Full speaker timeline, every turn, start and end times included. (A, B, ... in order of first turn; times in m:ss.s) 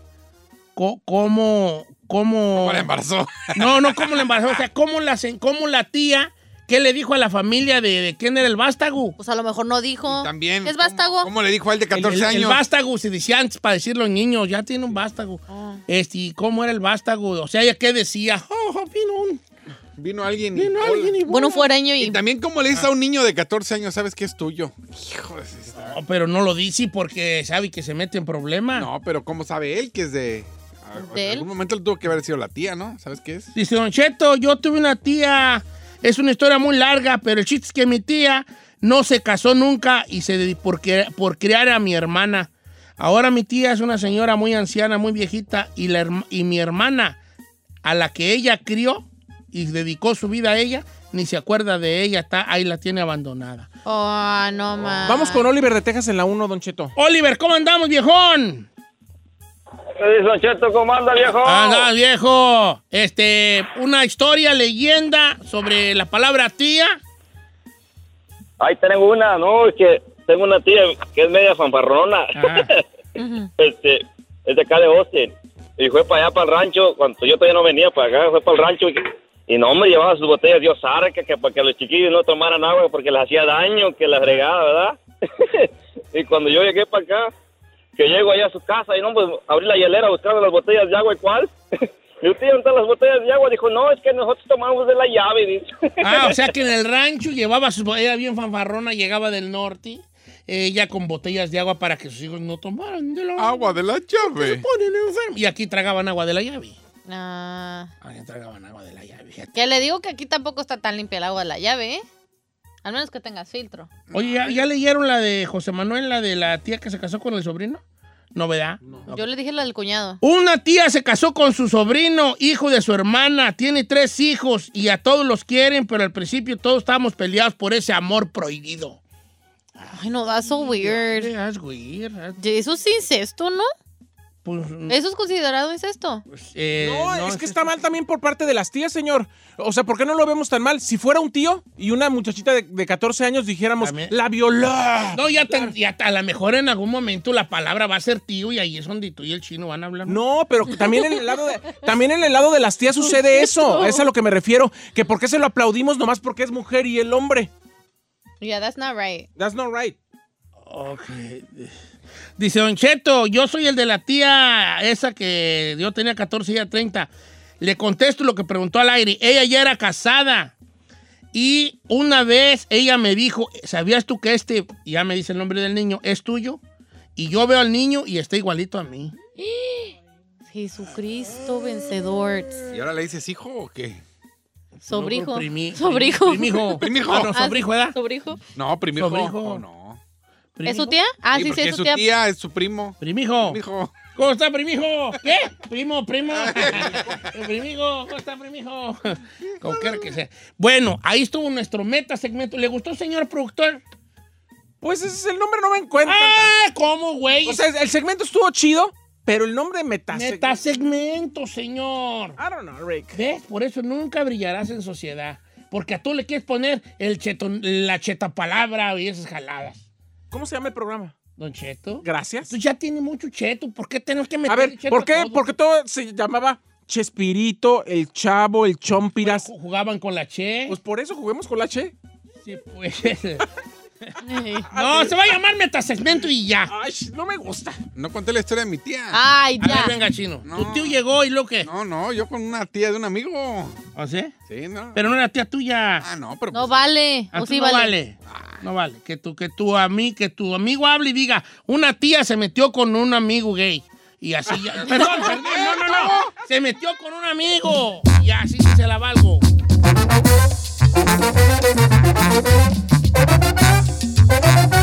0:00.8-0:02.9 A
0:02.6-0:04.2 B
0:03.5-0:09.2 A
0:09.2-0:11.3 C
0:10.0-0:12.6 B
0:11.9-0:19.4 A
0:15.5-0:15.8 C
0:20.0-0:21.2 B
0:20.5-0:21.7 A
0:21.3-0:22.2 C
0:22.0-0:26.0 B
0:25.8-0:28.9 A
0:28.7-0:33.5 B
0:31.0-0:31.5 C
0:33.6-0:47.2 A
0:47.8-0:53.7 A
0:53.8-0:55.5 C
0:55.0-0:56.9 D
0:57.0-0:58.7 A
1:00.0-1:01.9 E
1:01.4-1:07.0 A
1:08.6-1:12.8 E
1:12.3-1:12.7 A
1:13.2-1:13.5 C
1:13.6-1:27.3 E
1:28.0-1:31.5 E
1:32.2-1:36.5 E
1:36.0-1:46.8 A
1:43.4-1:44.6 B
1:47.1-1:47.9 C
1:48.0-1:49.5 A
1:49.6-1:52.0 C
1:52.8-1:53.9 C
1:54.1-1:54.6 B
1:54.1-1:57.8 A
1:58.4-1:59.2 A
1:59.1-2:00.2 C
2:00.2-2:09.0 A
2:09.8-2:12.4 A
2:09.9-2:11.3 C
2:12.4-2:13.7 C
2:14.4-2:15.0 A
2:14.9-2:16.2 C
2:16.3-2:17.8 A
2:16.8-2:25.7 D
2:23.8-2:24.1 A
2:25.1-2:30.2 A
2:30.1-2:37.5 D
2:33.0-2:34.0 C
2:38.4-2:39.3 C
2:39.4-2:40.0 D
2:40.7-2:41.7 A
2:42.4-2:50.5 A
2:51.3-2:56.6 A
2:57.2-2:59.2 A
2:59.4-2:59.9 C
3:00.5-3:02.7 C
3:02.7-3:04.0 B
3:04.8-3:08.0 A
3:04.9-3:06.8 C
3:06.8-3:07.4 B
3:07.3-3:08.4 C
3:08.6-3:10.0 B
3:09.0-3:09.6 A
3:10.6-3:11.0 A
3:10.6-3:12.0 C
3:11.3-3:14.0 B
3:13.0-3:13.6 A
3:14.1-3:23.8 A
3:16.3-3:17.3 B
3:24.8-3:26.5 D
3:26.0-3:27.6 A
3:27.4-3:30.6 D
3:30.1-3:32.4 A
3:32.4-3:33.2 D
3:33.1-3:39.8 A
3:40.3-3:41.1 D
3:41.4-3:45.6 A
3:42.0-3:42.5 D
3:44.5-3:49.5 D
3:49.2-3:50.8 A
3:50.7-3:51.9 D
3:52.4-3:53.4 A
3:54.2-3:54.7 C
3:54.7-3:55.2 D
3:54.7-3:56.7 A
3:56.7-3:57.8 D
3:58.0-3:59.2 B
3:59.1-3:59.9 C
3:59.6-4:01.7 A
4:00.4-4:01.0 B
4:01.6-4:03.8 B
4:04.0-4:04.3 A
4:04.5-4:05.0 B
4:04.9-4:06.1 A
4:06.0-4:06.9 B
4:06.5-4:07.9 C
4:07.3-4:19.5 A
4:08.3-4:08.6 B
4:15.0-4:16.3 B